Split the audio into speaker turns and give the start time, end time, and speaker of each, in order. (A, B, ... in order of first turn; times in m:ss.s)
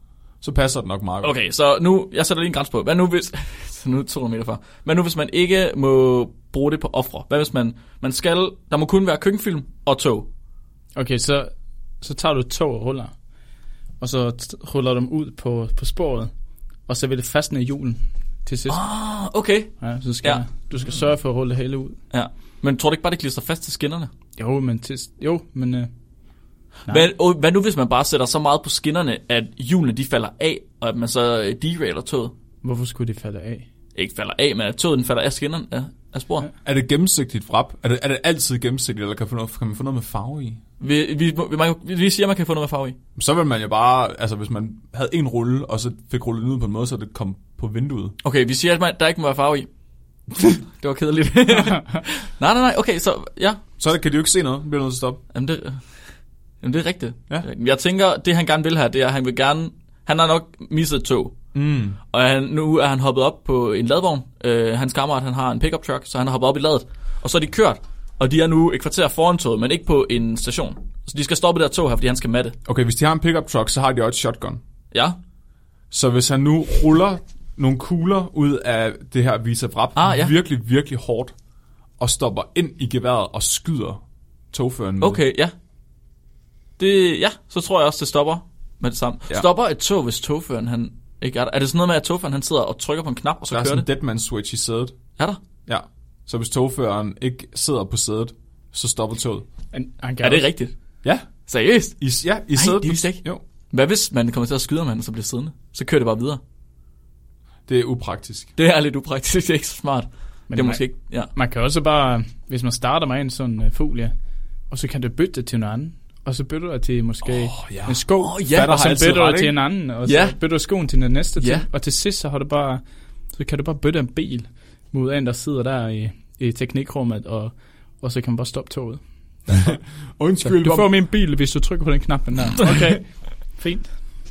0:00.4-0:01.3 A
0:01.2-0:10.3 B
0:10.9-0:13.1 C
0:14.0-0:16.3 C
0:16.9-0:18.8 C
0:18.7-0:20.4 B
0:19.8-0:22.0 C
0:22.1-0:24.1 B
0:24.4-0:25.9 C
0:26.9-0:32.3 B
0:32.6-0:33.7 C
0:33.9-0:36.5 B
0:36.6-0:40.6 A
0:40.8-0:43.0 B
0:43.2-0:48.1 A
0:48.2-0:49.7 B
0:50.4-0:53.6 B
0:53.8-0:55.2 A
0:55.3-0:55.8 B
0:56.6-1:01.4 B
1:01.5-1:02.0 A
1:02.1-1:12.6 B
1:12.7-1:14.6 A
1:14.9-1:15.2 B
1:15.9-1:21.3 A
1:20.0-1:20.3 B
1:22.0-1:25.2 A
1:25.0-1:25.5 B
1:26.8-1:33.8 B
1:33.5-1:35.0 A
1:35.6-1:39.4 A
1:39.7-1:40.5 C
1:40.2-1:40.7 B
1:41.4-1:42.0 B
1:42.0-1:43.4 A
1:42.5-1:46.4 B
1:47.7-1:48.5 A
1:48.6-1:51.3 B
1:50.5-1:50.8 C
1:51.3-1:54.1 C
1:54.7-2:09.0 C
1:57.2-1:59.5 A
1:58.2-1:58.8 B
2:00.0-2:00.4 B
2:01.4-2:01.6 B
2:09.5-2:10.9 A
2:09.5-2:09.8 C
2:10.4-2:13.9 C